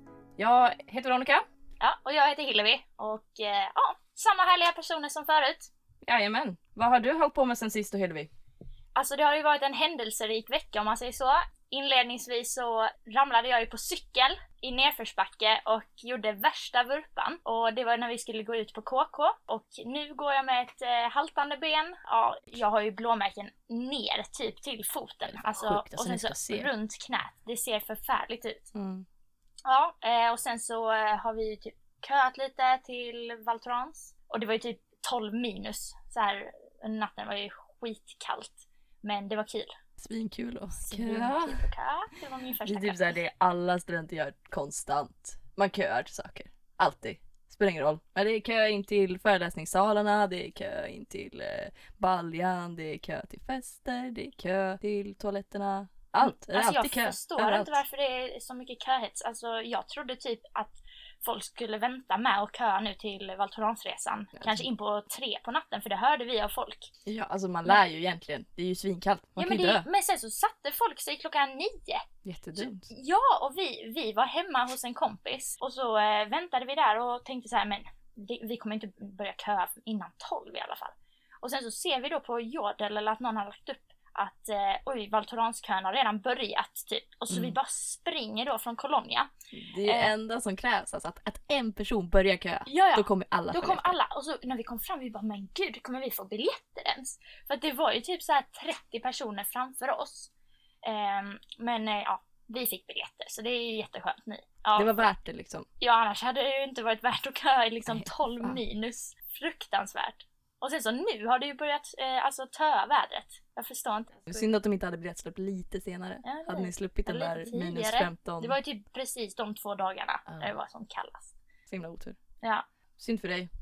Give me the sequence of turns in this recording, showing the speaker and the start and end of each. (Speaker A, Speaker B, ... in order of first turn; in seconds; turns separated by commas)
Speaker A: 0.4-1.4, Speaker B: 1.8-5.7, Speaker A: 6.0-8.3, Speaker B: 9.0-28.7, Speaker A: 25.3-26.7, Speaker A: 28.7-29.1, Speaker B: 29.6-39.7, Speaker A: 40.0-41.6, Speaker B: 40.8-43.1, Speaker A: 42.6-57.8, Speaker B: 56.2-66.9, Speaker A: 64.3-64.7, Speaker A: 67.0-69.8, Speaker B: 69.4-72.0, Speaker A: 72.2-72.9, Speaker B: 72.6-89.3, Speaker A: 89.5-94.0, Speaker B: 89.8-90.1, Speaker B: 92.7-100.3, Speaker B: 100.8-105.0, Speaker A: 104.8-105.7, Speaker B: 105.8-114.5, Speaker A: 107.9-108.6, Speaker A: 114.3-118.6, Speaker B: 116.2-121.3, Speaker A: 120.3-120.5, Speaker A: 121.7-122.2, Speaker A: 123.0-123.5